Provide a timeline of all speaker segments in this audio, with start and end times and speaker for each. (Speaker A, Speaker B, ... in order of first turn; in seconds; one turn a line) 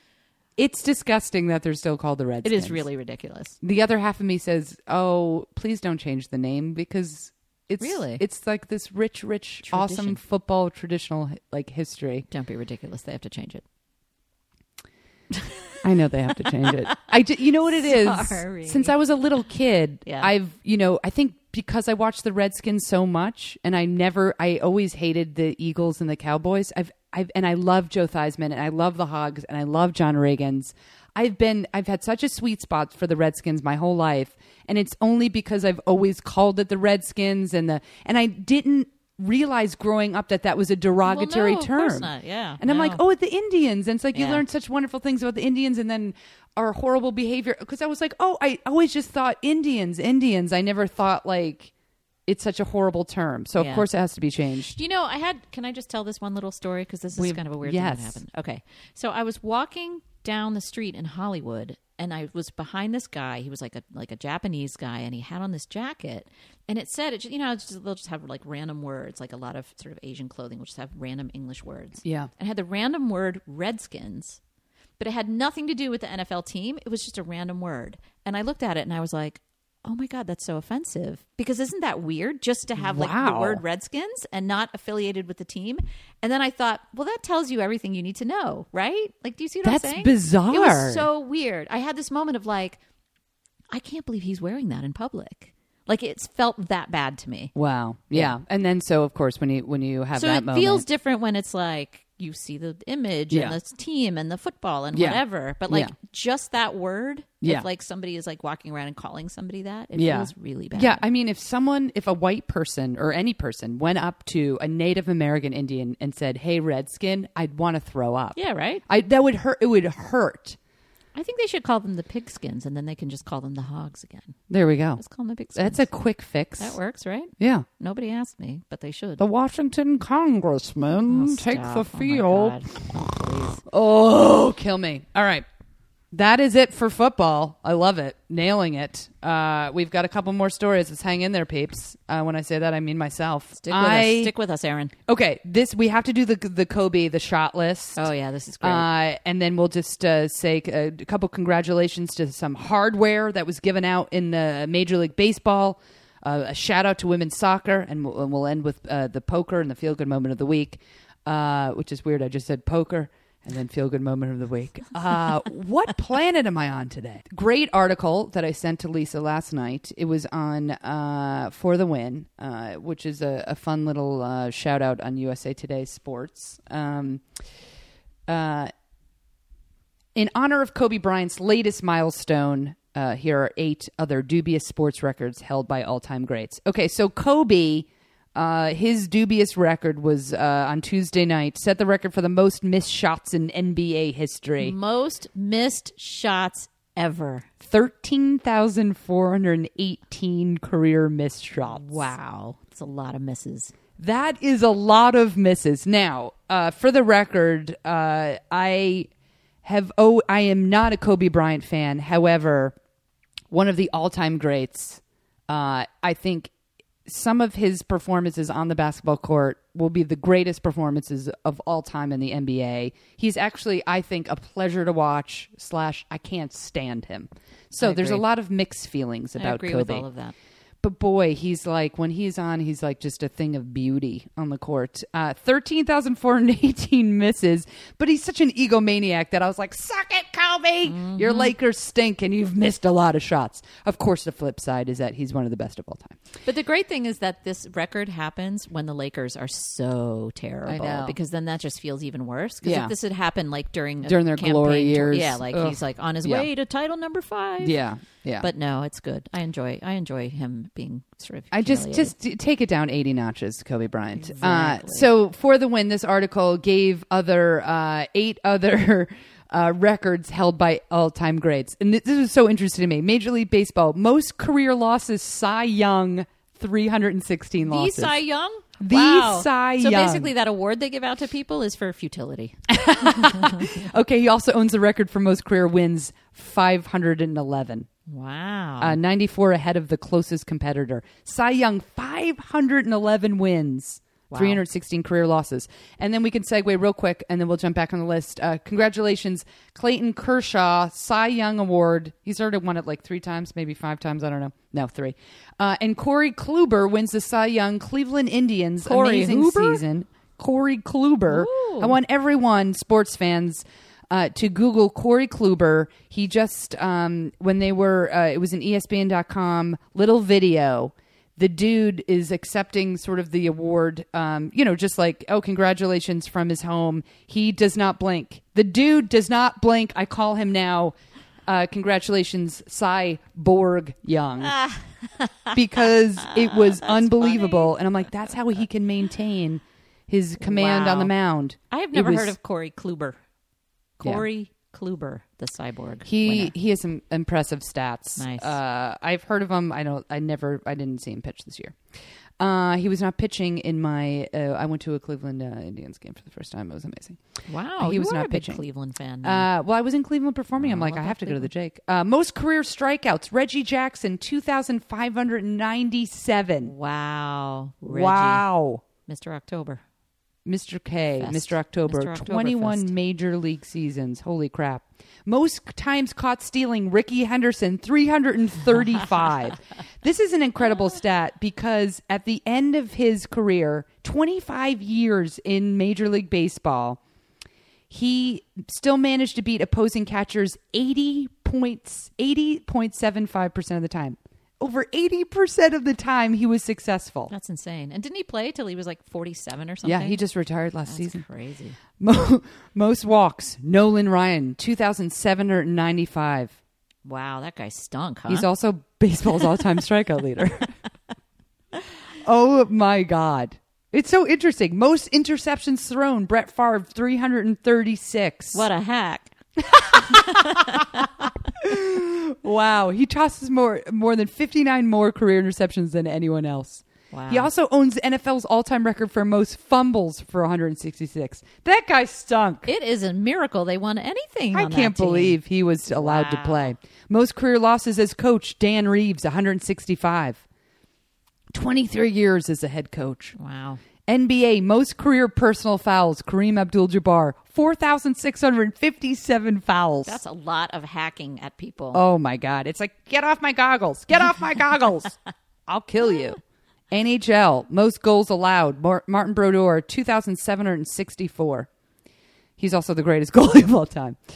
Speaker A: 0.6-2.8
Speaker B: 2.4-3.6
Speaker A: 3.6-12.3
Speaker B: 7.8-8.2
Speaker B: 9.6-10.2
Speaker B: 12.3-13.6
Speaker B: 15.3-15.8
Speaker A: 15.8-51.7
Speaker B: 16.5-18.9
Speaker B: 20.1-20.3
Speaker B: 41.0-43.0
Speaker B: 44.1-44.4
Speaker A: 52.3-54.8
Speaker B: 53.6-53.9
Speaker B: 54.7-74.4
Speaker A: 57.1-58.2
Speaker A: 72.0-72.3
Speaker B: 75.0-92.8
Speaker A: 82.8-83.6
Speaker A: 89.6-91.1
Speaker B: 93.7-97.5
Speaker A: 97.5-100.8
Speaker B: 100.1-111.0
Speaker A: 103.3-103.6
Speaker A: 104.9-105.9
Speaker A: 110.0-120.6
Speaker B: 118.4-118.8
Speaker B: 121.2-124.4
Speaker A: 124.5-125.0
Speaker B: 125.0-125.9
Speaker A: 125.5-126.8
Speaker B: 126.6-129.2
Speaker A: 127.4-127.7
Speaker A: 129.2-132.6
Speaker B: 131.1-133.6
Speaker A: 133.7-135.4
Speaker A: 136.1-144.3
Speaker B: 143.6-144.9
Speaker A: 145.1-148.1
Speaker B: 148.0-148.9
Speaker A: 148.6-177.2
Speaker A: 178.3-178.7
Speaker A: 180.2-194.8
Speaker B: 194.6-197.5
Speaker A: 197.6-202.1
Speaker B: 201.6-203.7
Speaker A: 204.0-209.1
Speaker A: 209.6-212.8
Speaker A: 213.5-216.5
Speaker A: 217.1-230.1
Speaker B: 227.8-228.2
Speaker B: 229.4-230.3
Speaker A: 230.8-246.2
Speaker B: 240.8-241.5
Speaker B: 246.5-257.8
Speaker A: 250.7-251.2
Speaker A: 252.6-252.9
Speaker A: 254.1-256.5
Speaker A: 257.6-258.5
Speaker B: 258.4-262.1
Speaker A: 261.5-278.1
Speaker B: 264.2-265.1
Speaker B: 277.6-283.7
Speaker A: 278.8-280.3
Speaker A: 282.7-287.9
Speaker B: 288.1-289.0
Speaker A: 288.8-330.9
Speaker B: 294.3-294.6
Speaker B: 308.8-309.8
Speaker B: 311.3-312.0
Speaker A: 331.5-334.6
Speaker B: 334.4-337.8
Speaker A: 335.5-342.3
Speaker B: 340.4-341.1
Speaker B: 341.7-343.2
Speaker B: 344.0-346.5
Speaker A: 346.1-351.8
Speaker B: 348.2-348.6
Speaker A: 352.4-357.2
Speaker B: 357.5-359.5
Speaker A: 357.8-358.6
Speaker A: 359.2-366.7
Speaker B: 360.6-361.5
Speaker B: 366.6-368.5
Speaker A: 367.9-368.8
Speaker B: 369.1-369.8
Speaker A: 370.5-387.0
Speaker B: 371.2-372.9
Speaker A: 387.9-397.3
Speaker B: 397.3-400.2
Speaker A: 399.9-401.2
Speaker B: 400.9-401.8
Speaker A: 402.0-406.6
Speaker B: 407.1-408.5
Speaker A: 408.3-410.7
Speaker A: 412.2-418.7
Speaker B: 418.5-419.3
Speaker A: 419.7-421.0
Speaker B: 419.9-421.2
Speaker A: 421.6-432.7
Speaker B: 427.1-427.5
Speaker B: 432.7-436.8
Speaker A: 434.5-440.4
Speaker A: 441.5-443.4
Speaker B: 443.4-443.8
Speaker A: 444.1-450.2
Speaker B: 450.1-452.0
Speaker A: 451.9-456.4
Speaker A: 456.9-461.7
Speaker A: 462.6-464.2